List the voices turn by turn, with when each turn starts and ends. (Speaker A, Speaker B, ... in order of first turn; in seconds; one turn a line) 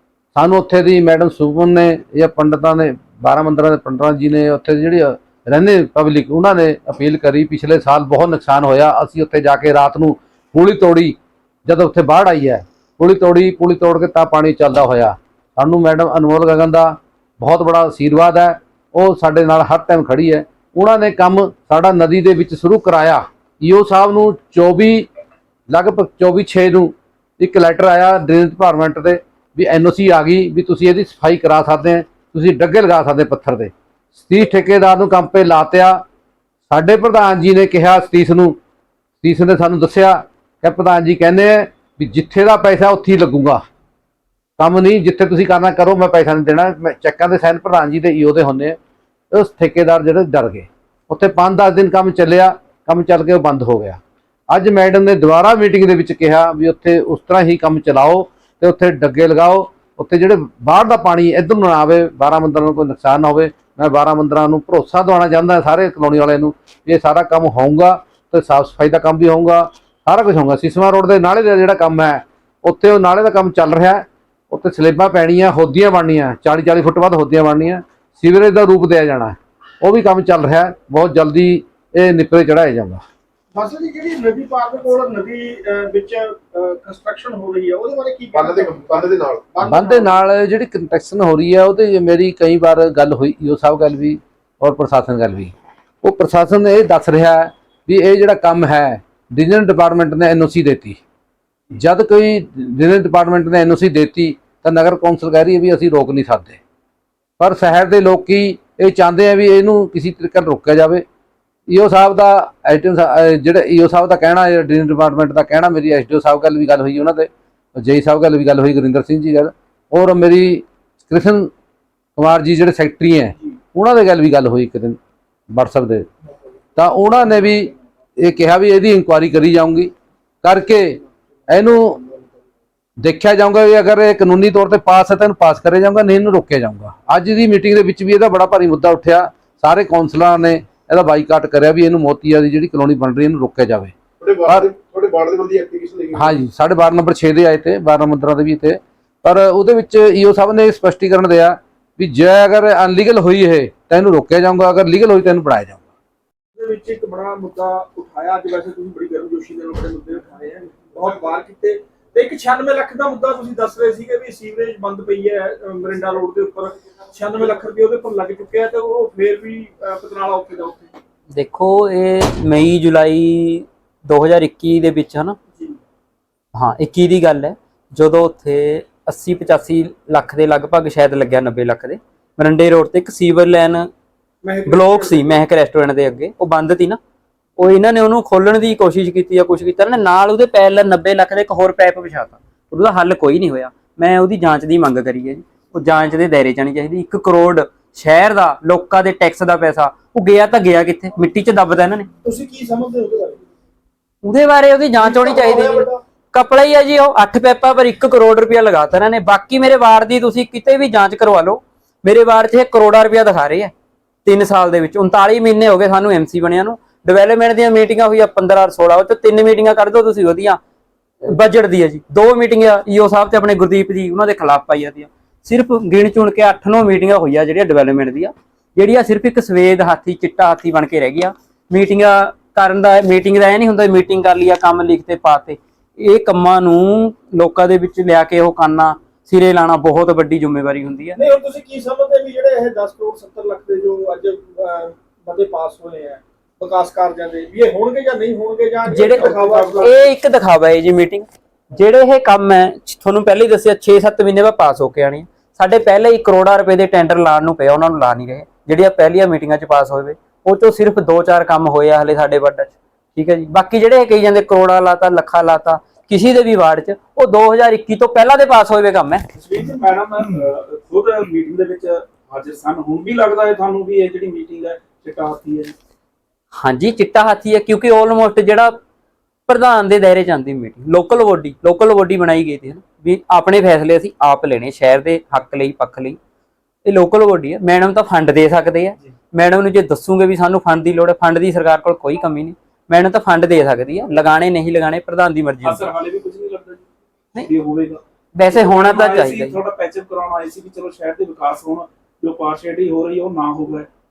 Speaker A: 0.3-25.1
Speaker A: 25.7-36.0
Speaker A: 36.7-38.6
Speaker A: 39.2-43.6
Speaker A: 44.6-48.8
Speaker A: 49.3-83.0
Speaker B: 83.5-90.2
Speaker C: 88.3-89.5
Speaker A: 89.6-101.0
Speaker A: 101.7-106.6
Speaker A: 107.4-111.0
Speaker A: 111.7-121.5
Speaker A: 122.2-125.0
Speaker A: 125.5-126.1
Speaker A: 126.8-129.9
Speaker A: 130.4-132.0
Speaker A: 133.0-143.9
Speaker C: 144.2-146.4
Speaker A: 146.1-155.8
Speaker B: 156.5-170.9
Speaker D: 171.3-175.4
Speaker B: 175.5-175.8
Speaker D: 176.5-183.9
Speaker B: 184.4-185.4
Speaker D: 184.7-187.0
Speaker D: 187.6-202.1
Speaker B: 202.2-203.4
Speaker D: 204.2-213.7
Speaker B: 205.0-206.0
Speaker D: 214.2-220.6
Speaker D: 221.2-241.2
Speaker B: 241.2-250.1
Speaker D: 248.9-269.2
Speaker E: 269.3-275.7
Speaker D: 276.5-278.8
Speaker D: 279.5-286.2
Speaker D: 286.8-295.9
Speaker E: 295.6-296.8
Speaker E: 297.4-303.9
Speaker D: 298.4-299.6